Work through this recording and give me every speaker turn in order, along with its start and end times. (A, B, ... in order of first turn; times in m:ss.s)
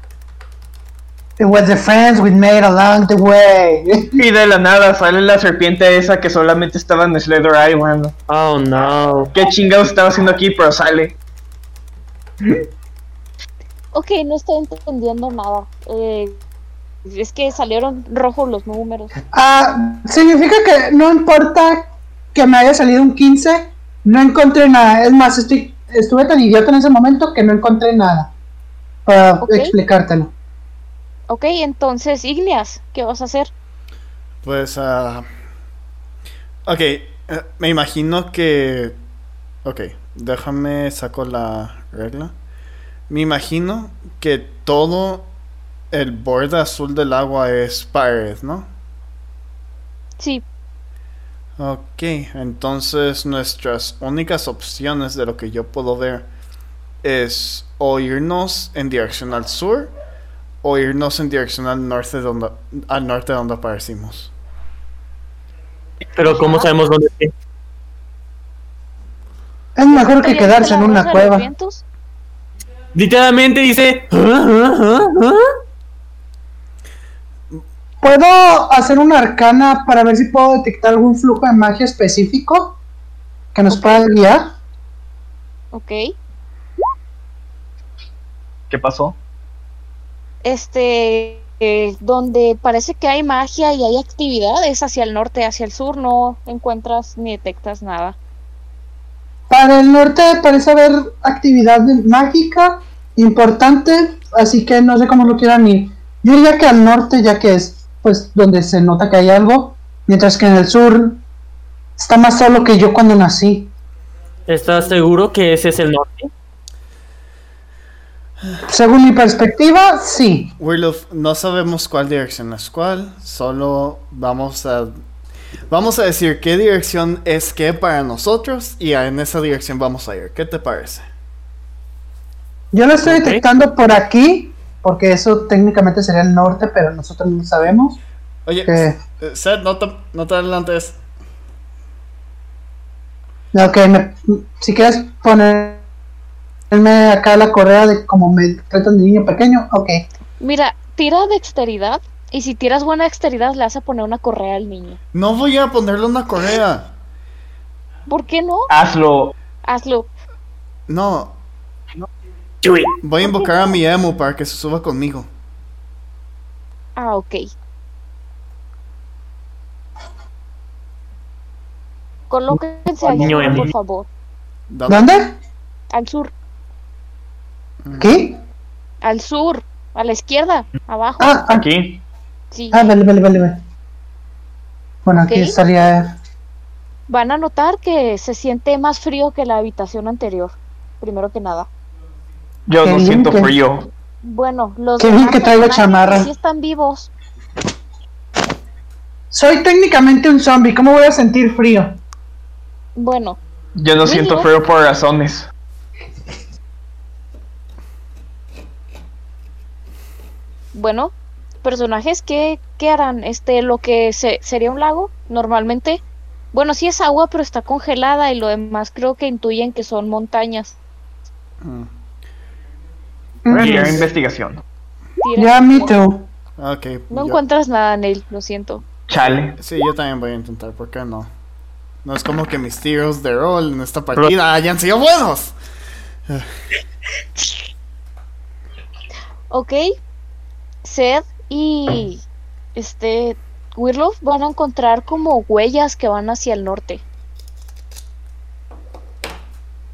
0:01.4-0:04.2 A
0:04.1-0:08.1 B
0:08.3-0:09.3 C
0:09.3-0:11.2 B
0:13.9-0:16.4 D
0:17.1-0:19.1 D
0:19.3-0:28.3 A
0:29.0-0:30.3 A
0:29.4-0:29.7 D
0:31.3-0:33.5 D
0:34.4-0:35.2 E
0:36.6-0:39.0 E
0:39.6-0:42.3 E
0:43.1-0:45.3 E
0:45.9-0:48.7 E
0:50.2-0:50.4 D
0:51.6-0:56.3 E
0:57.0-0:59.9 E
1:00.6-1:04.3 E
1:06.2-1:07.3 C
1:06.3-1:06.7 D
1:09.7-1:11.5 A
1:09.9-1:11.8 D
1:12.9-1:15.5 C
1:18.0-1:22.8 A
1:23.5-1:24.5 A
1:23.7-1:24.0 D
1:25.7-1:26.1 D
1:28.7-1:29.2 B
1:30.4-1:38.2 D
1:39.5-1:51.2 A
1:52.0-1:53.7 A
1:54.5-1:56.3 C
1:58.7-2:00.5 A
2:00.6-2:04.9 E
2:05.7-2:11.0 E
2:12.7-2:18.0 A
2:13.0-2:13.4 C
2:18.4-2:21.0 E
2:18.7-2:19.0 A
2:23.5-2:25.8 A
2:26.7-2:30.0 A
2:30.4-2:35.0 D
2:35.1-2:36.9 E
2:38.1-2:38.7 D
2:38.7-2:39.3 B
2:39.6-2:40.1 D
2:40.9-2:41.4 E
2:42.6-2:42.9 C
2:43.0-2:45.3 E
2:43.2-2:43.6 D
2:47.0-2:47.5 D
2:52.3-2:54.1 D
2:53.1-2:53.7 C
2:54.7-2:55.1 E
2:54.9-2:55.3 A
2:55.9-2:56.3 D
2:57.8-2:58.1 E
2:58.0-2:58.4 A
2:59.0-3:01.4 D
3:01.2-3:01.7 A
3:01.5-3:02.0 B
3:02.5-3:02.9 D
3:02.7-3:03.6 A
3:05.0-3:06.2 A
3:05.2-3:05.6 D
3:07.1-3:11.7 D
3:12.7-3:13.9 B
3:12.8-3:13.6 A
3:14.2-3:17.1 D
3:15.0-3:16.3 A
3:19.3-3:22.0 A
3:23.0-3:23.4 D
3:23.8-3:25.5 B
3:24.0-3:24.5 D
3:30.7-3:36.0 D
3:36.5-3:40.7 D
3:41.6-3:41.9 E
3:43.4-3:44.0 A
3:43.5-3:44.6 B
3:43.6-3:44.0 C
3:45.2-3:45.9 D
3:45.4-3:46.3 A
3:46.6-3:47.4 E
3:47.1-3:48.8 D
3:49.1-3:49.6 B
3:49.6-3:51.3 E
3:52.0-3:55.5 E
3:59.5-3:59.8 D
4:00.8-4:02.2 D
4:02.8-4:07.0 D